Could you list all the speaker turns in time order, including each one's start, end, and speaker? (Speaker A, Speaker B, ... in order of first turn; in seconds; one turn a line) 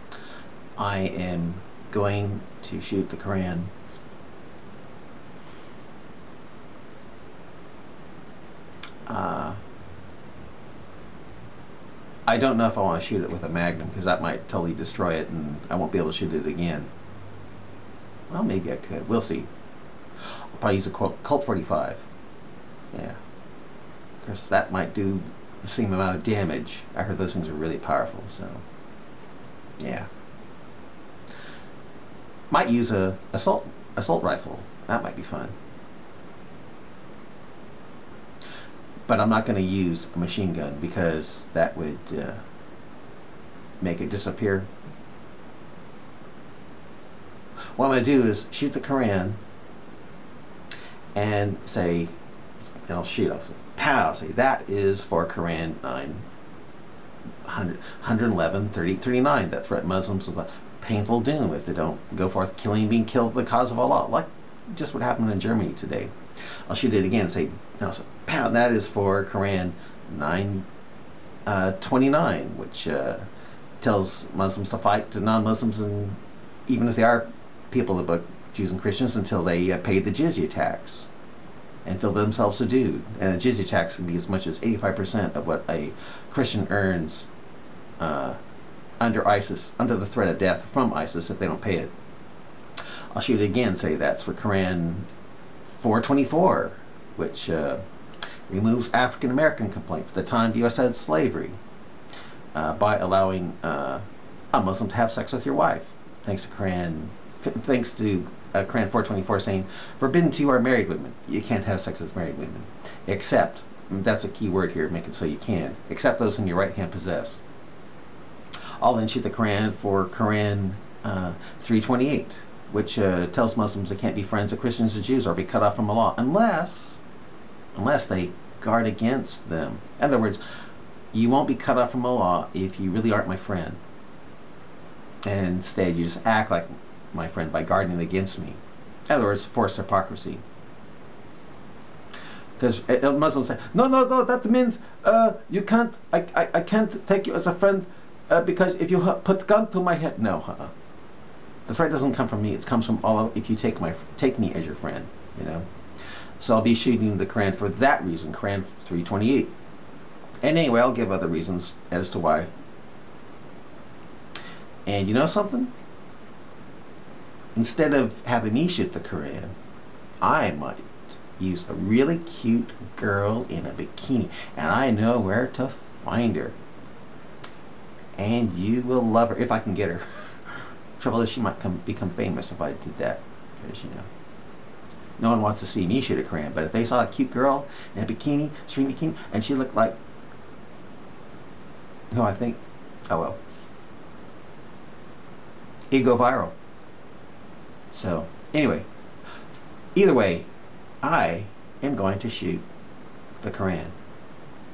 Speaker A: 0.8-3.7
Speaker A: 9.1-9.6
Speaker A: 12.3-16.9
Speaker A: 18.3-19.5
Speaker A: 20.2-22.1
Speaker A: 22.9-23.2
Speaker A: 24.2-28.6
Speaker A: 29.8-30.1
Speaker A: 32.5-35.5
Speaker A: 39.1-42.4
Speaker A: 43.8-44.7
Speaker A: 47.7-49.4
Speaker A: 51.1-52.1
Speaker A: 52.9-56.2
Speaker A: 57.4-66.1
Speaker A: 66.7-70.7
Speaker A: 71.5-73.2
Speaker A: 73.8-81.1
Speaker A: 81.8-87.3
Speaker A: 88.0-88.4
Speaker A: 89.0-91.9
Speaker A: 93.1-95.1
Speaker A: 95.7-97.8
Speaker A: 98.5-101.6
Speaker A: 102.5-117.4
Speaker A: 118.8-127.0
Speaker A: 127.7-130.4
Speaker A: 131.1-133.8
Speaker A: 135.2-140.4
Speaker A: 142.6-150.7
Speaker A: 151.7-159.5
Speaker A: 160.4-162.5
Speaker A: 164.8-165.7
Speaker A: 167.5-169.5
Speaker A: 170.2-176.6
Speaker A: 178.2-184.1
Speaker A: 185.2-190.0
Speaker A: 192.1-193.4
Speaker A: 195.9-196.5
Speaker A: 197.9-198.9
Speaker A: 199.9-200.5
Speaker A: 201.0-202.6
Speaker A: 203.4-203.9